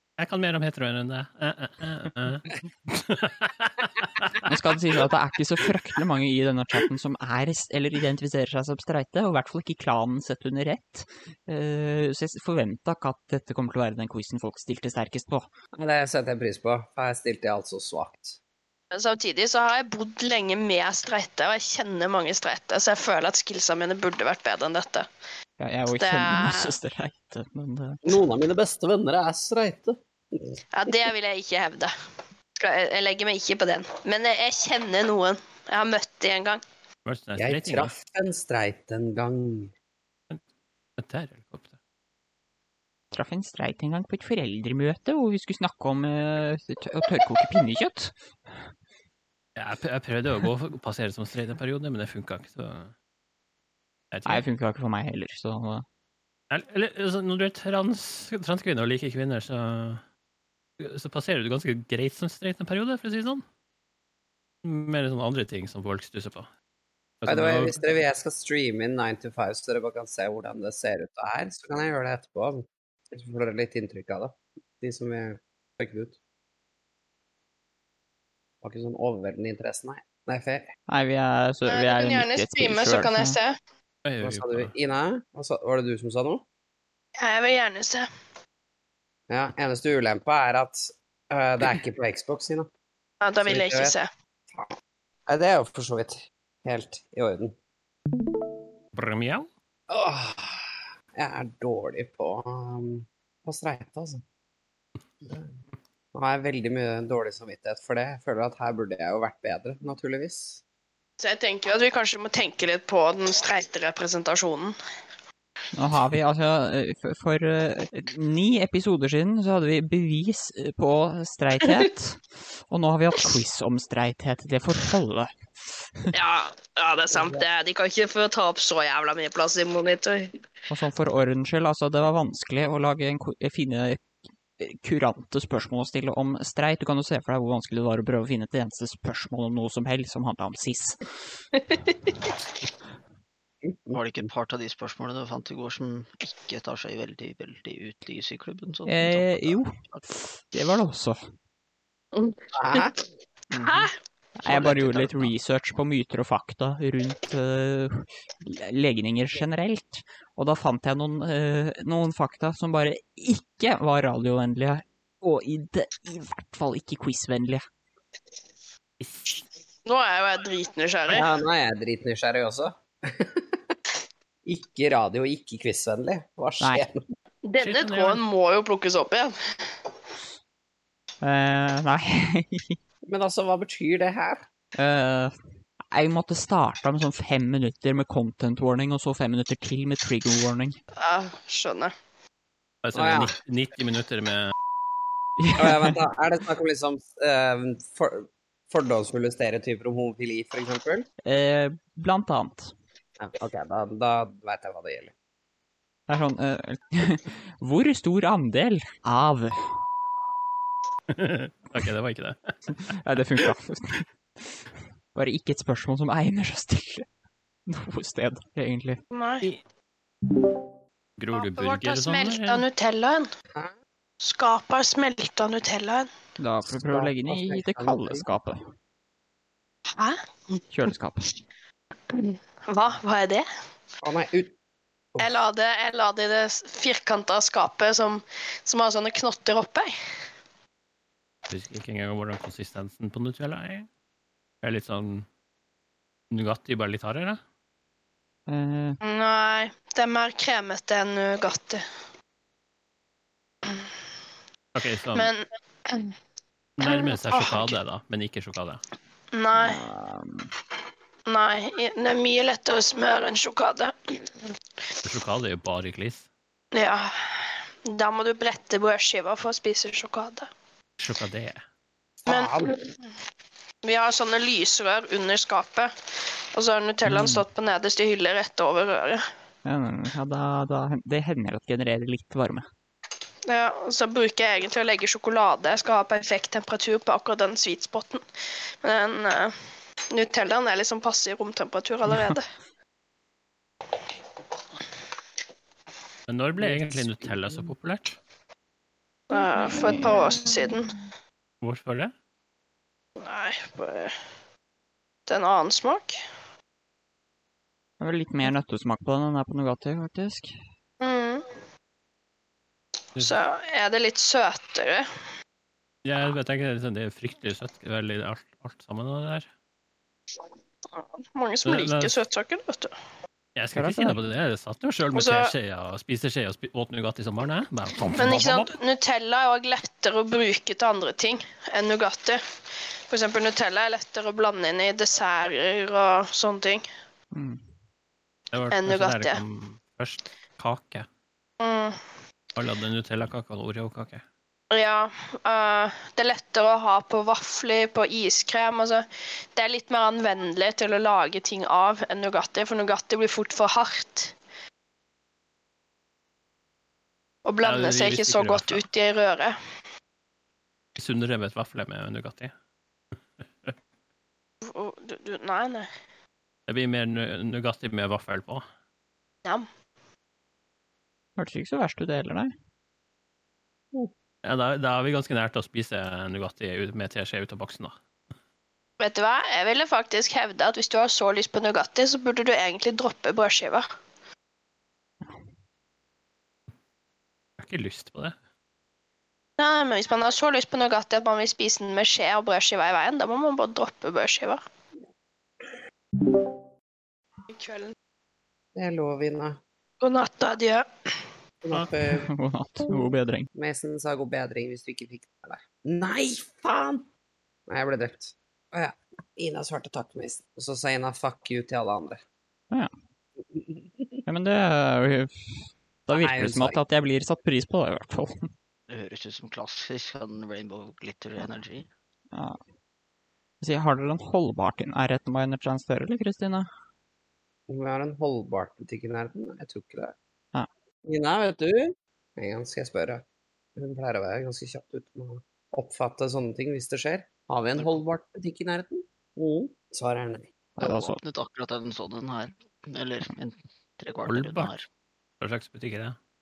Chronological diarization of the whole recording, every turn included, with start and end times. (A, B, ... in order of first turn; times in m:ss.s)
0:00.2-0:04.4 A
0:04.4-0:15.5 B
0:15.8-0:18.4 C
0:18.9-0:25.1 D
0:25.6-0:28.2 B
0:26.0-0:26.7 D
0:28.0-0:30.6 C
0:30.7-0:31.9 D
0:32.6-0:36.6 D
0:37.0-0:37.9 A
0:37.4-0:39.7 C
0:41.0-0:41.8 A
0:43.1-0:48.5 B
0:49.6-0:52.9 A
0:54.1-0:54.4 A
0:54.2-0:55.8 B
0:56.5-1:00.0 A
1:00.8-1:03.4 A
1:04.6-1:06.5 A
1:07.2-1:07.8 A
1:07.3-1:16.2 C
1:18.6-1:20.7 C
1:20.9-1:23.4 B
1:21.7-1:23.6 D
1:24.0-1:24.7 A
1:24.2-1:26.4 C
1:27.2-1:28.1 D
1:29.3-1:32.7 C
1:33.2-1:34.1 D
1:33.4-1:33.9 C
1:35.3-1:37.5 C
1:38.9-1:39.5 A
1:39.9-1:44.2 C
1:45.2-1:45.5 C
1:46.1-1:50.6 C
1:51.2-1:54.8 D
1:55.7-2:06.1 B
2:06.1-2:10.4 D
2:10.7-2:14.0 B
2:14.6-2:21.1 B
2:23.6-2:24.0 C
2:23.9-2:30.0 E
2:28.8-2:31.3 B
2:32.1-2:32.9 D
2:32.5-2:32.9 C
2:33.5-2:33.9 E
2:33.6-2:33.9 D
2:34.4-2:47.6 B
2:34.4-2:35.3 E
2:49.0-2:49.3 A
2:49.8-2:51.3 D
2:51.1-2:53.8 C
2:54.4-2:57.0 C
2:56.6-2:56.9 B
2:57.4-2:59.3 D
2:57.6-2:58.2 A
3:01.2-3:02.8 B
3:03.0-3:04.4 C
3:04.8-3:05.4 B
3:05.9-3:10.8 B
3:11.0-3:11.9 D
3:12.8-3:14.5 A
3:12.9-3:13.3 C
3:15.4-3:16.0 B
3:15.6-3:21.1 C
3:21.2-3:22.7 B
3:23.2-3:25.1 C
3:26.1-3:29.8 B
3:31.1-3:32.7 A
3:32.7-3:37.1 B
3:37.6-3:39.0 B
3:39.1-3:39.5 D
3:41.2-3:42.6 A
3:41.3-3:43.3 D
3:44.2-3:46.1 D
3:46.4-3:48.6 B
3:46.6-3:48.2 C
3:49.9-3:50.6 D
3:50.7-3:51.3 B
3:52.1-3:53.5 D
3:54.0-3:54.5 C
3:55.2-3:59.9 D
4:01.5-4:03.9 A
4:04.6-4:05.3 A
4:06.3-4:07.4 A
4:08.5-4:09.0 B
4:09.0-4:11.8 D
4:13.6-4:13.9 D
4:14.7-4:15.3 A
4:15.1-4:16.2 D
4:16.8-4:18.8 A
4:16.8-4:17.8 D
4:19.3-4:19.8 D
4:19.6-4:20.5 B
4:21.3-4:24.5 D
4:25.0-4:26.2 A
4:26.7-4:30.5 D
4:31.0-4:31.6 A
4:32.2-4:32.8 C
4:32.3-4:32.8 D
4:33.8-4:35.9 D
4:36.5-4:39.2 D
4:37.0-4:37.4 B
4:39.6-4:42.7 B
4:43.5-4:48.2 D
4:48.8-4:49.6 D
4:50.1-4:52.5 D
4:52.1-4:52.4 B
4:56.3-4:58.2 A
4:59.3-5:00.9 D
5:01.6-5:02.1 A
5:03.2-5:04.1 D
5:05.3-5:06.2 D
5:08.0-5:10.5 B
5:11.0-5:11.5 D
5:13.2-5:15.0 D
5:16.0-5:19.5 A
5:20.9-5:22.9 D
5:21.6-5:22.2 A
5:23.6-5:28.7 A
5:23.7-5:24.2 B
5:25.1-5:25.5 D
5:28.1-5:28.4 B
5:28.2-5:32.4 D
5:33.1-5:36.8 D
5:37.3-5:37.6 B
5:38.5-5:41.1 A
5:38.7-5:39.4 D
5:41.6-5:42.0 D
5:42.6-5:44.2 A
5:44.7-5:54.3 D
5:57.4-5:59.6 D
5:57.6-5:58.8 A
6:01.0-6:02.5 A
6:03.4-6:03.7 A
6:04.6-6:05.9 D
6:06.7-6:08.6 A
6:11.4-6:12.5 B
6:14.4-6:18.0 A
6:19.0-6:23.8 D
6:27.6-6:28.4 A
6:29.6-6:34.6 D
6:37.5-6:37.9 D
6:38.7-6:39.6 C
6:40.0-6:41.3 D
6:41.6-6:42.3 C
6:41.7-6:43.5 B
6:43.5-6:47.0 C
6:47.7-6:52.2 C
6:53.4-6:54.2 C
6:54.2-6:58.5 B
6:56.1-6:56.8 C
6:58.9-7:01.9 E
7:02.3-7:02.6 B
7:03.6-7:06.7 B
7:07.7-7:10.1 C
7:11.0-7:13.2 C
7:13.8-7:20.5 C
7:20.8-7:21.2 B
7:20.8-7:24.9 E
7:24.2-7:24.7 A
7:25.4-7:26.2 A